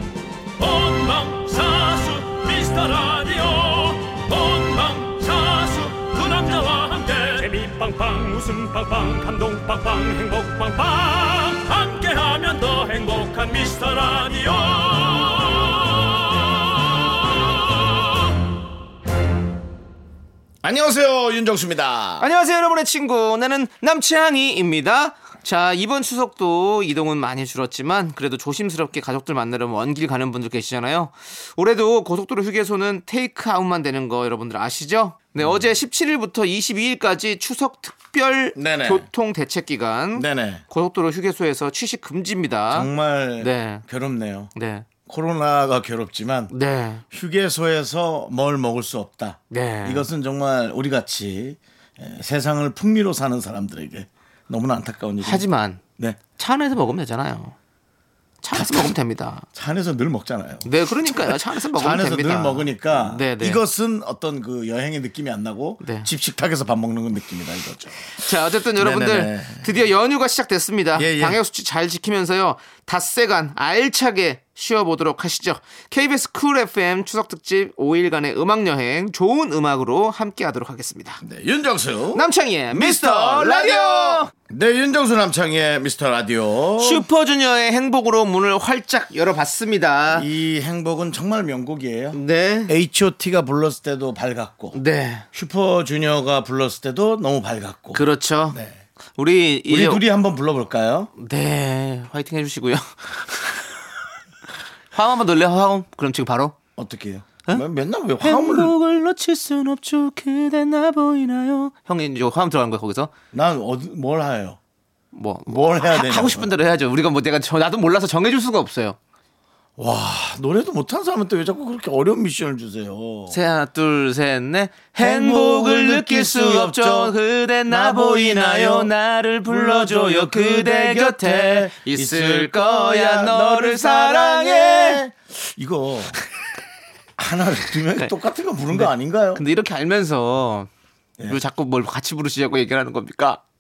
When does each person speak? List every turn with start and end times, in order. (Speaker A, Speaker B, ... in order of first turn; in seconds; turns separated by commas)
Speaker A: 0.6-18.3, Speaker B: 20.6-22.3, Speaker C: 22.2-43.8, Speaker B: 35.4-35.7, Speaker B: 38.5-39.1, Speaker B: 40.1-40.6, Speaker B: 42.7-44.5, Speaker C: 44.6-44.9, Speaker B: 45.1-46.5, Speaker C: 46.5-47.0, Speaker B: 47.1-55.5, Speaker C: 49.5-50.1, Speaker C: 55.2-55.8, Speaker C: 56.4-57.5, Speaker C: 58.4-59.5, Speaker B: 58.5-58.9, Speaker B: 59.5-69.8, Speaker C: 60.7-63.6, Speaker C: 65.8-66.1, Speaker C: 68.2-81.2, Speaker B: 71.0-71.4, Speaker B: 81.2-87.1, Speaker C: 82.2-84.3, Speaker C: 86.8-90.3, Speaker B: 90.1-94.8, Speaker C: 92.1-92.8, Speaker C: 94.7-95.2, Speaker B: 95.3-98.8, Speaker C: 97.9-98.6, Speaker C: 99.2-100.0, Speaker B: 99.7-101.1, Speaker C: 101.2-103.7, Speaker C: 104.9-106.6, Speaker B: 106.8-108.7, Speaker C: 108.2-113.1, Speaker B: 113.3-114.6, Speaker C: 115.1-119.0, Speaker B: 115.5-116.5, Speaker B: 119.8-123.4, Speaker C: 123.3-135.0, Speaker B: 125.0-127.1, Speaker B: 127.7-128.9, Speaker B: 129.5-136.2, Speaker B: 137.2-139.4, Speaker C: 138.7-140.7, Speaker C: 141.3-143.4